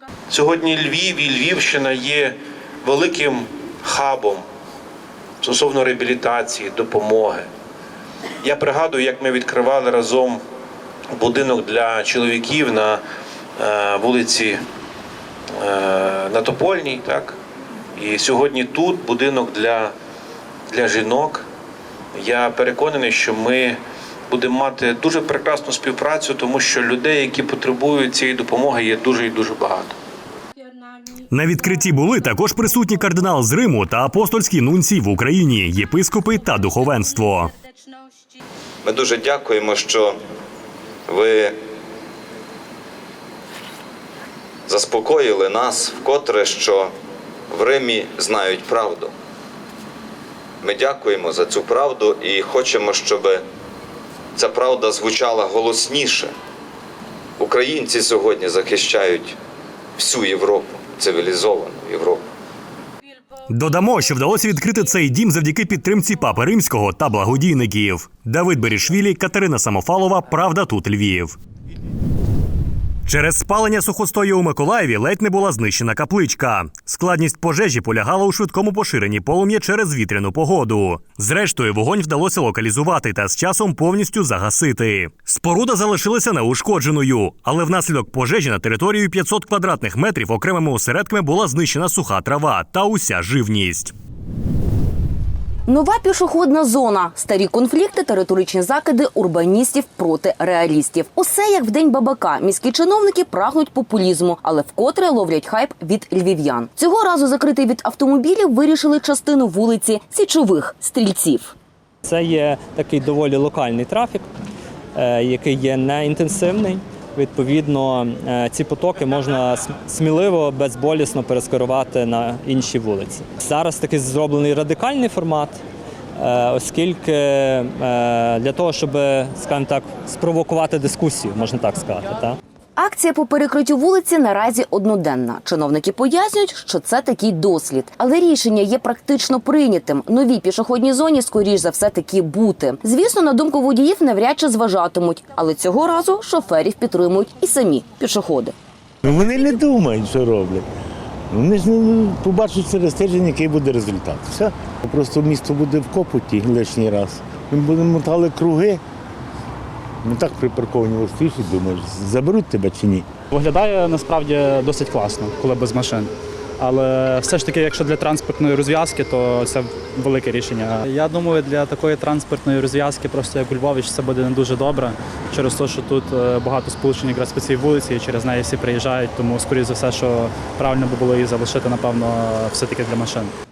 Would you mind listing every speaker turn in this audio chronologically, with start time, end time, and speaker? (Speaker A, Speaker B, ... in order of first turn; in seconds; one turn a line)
Speaker A: 0.3-4.5
Speaker A: 5.4-7.5
Speaker A: 8.4-10.4
Speaker A: 11.1-13.0
Speaker A: 13.6-14.6
Speaker A: 15.5-17.4
Speaker A: 17.9-19.9
Speaker A: 20.7-21.5
Speaker A: 22.1-29.9
Speaker B: 31.3-37.5
Speaker C: 38.8-40.2
Speaker C: 41.1-41.6
Speaker C: 44.7-46.9
Speaker C: 47.5-49.1
Speaker C: 50.6-53.4
Speaker C: 54.3-56.3
Speaker C: 57.4-59.4
Speaker C: 60.0-62.2
Speaker B: 63.5-71.4
Speaker B: 73.0-93.9
Speaker D: 95.7-111.5
Speaker E: 112.0-114.3
Speaker E: 114.9-125.6
Speaker E: 126.2-132.4
Speaker D: 132.8-148.5
Speaker F: 149.0-150.7
Speaker F: 151.3-158.8
Speaker F: 160.0-163.1
Speaker G: 163.3-183.3